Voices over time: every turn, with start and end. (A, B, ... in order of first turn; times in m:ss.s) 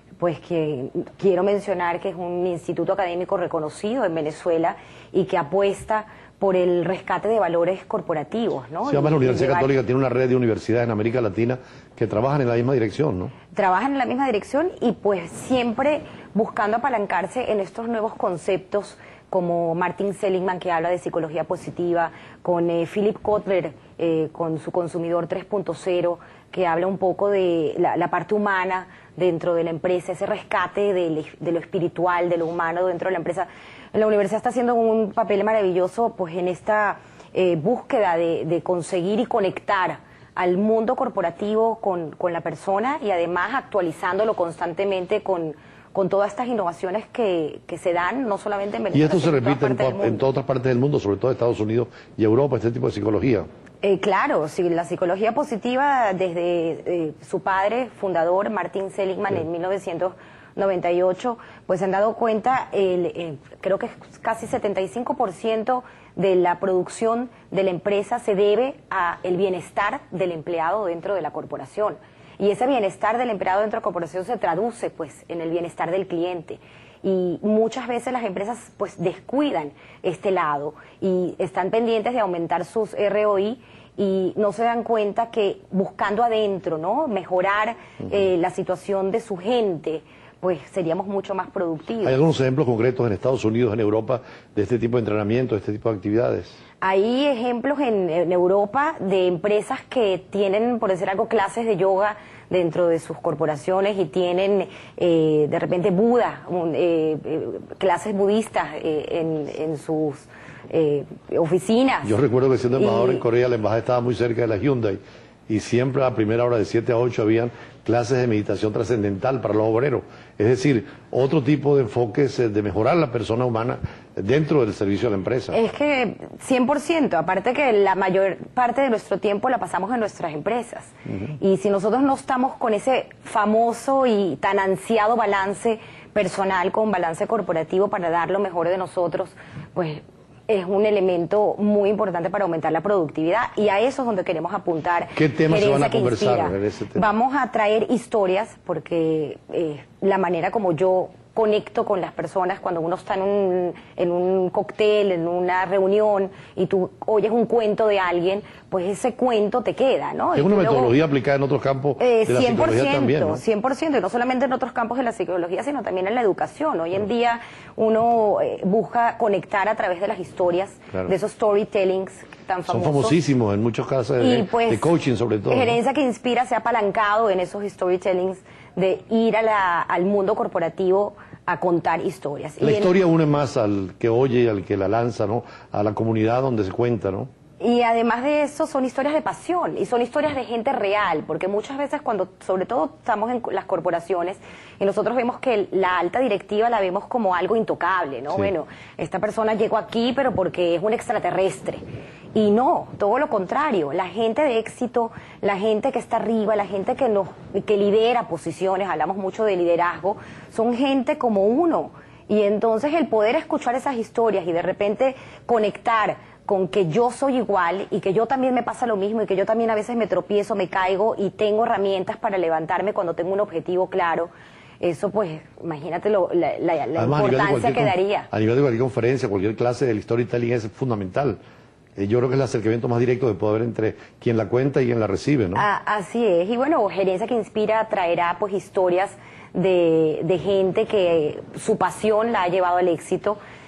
0:00.2-0:09.7 A
0:08.9-0:13.3 B
0:13.5-0:50.2 A
0:48.9-0:53.5 B
0:53.8-1:32.2 A
1:32.0-1:36.6 B
1:36.8-1:52.2 A
1:52.0-2:05.6 B
1:52.7-1:53.2 A
2:05.5-2:41.0 A
2:25.2-2:27.0 B
2:40.3-2:43.4 B
2:42.0-2:53.2 A
2:52.7-2:55.8 B
2:54.2-2:54.9 A
2:55.5-3:03.0 A
3:02.6-3:07.3 B
3:07.6-3:21.8 A
3:22.3-3:44.3 A
3:44.8-3:48.3 A
3:47.0-3:51.4 B
3:52.0-3:55.6 B
3:55.6-4:03.4 A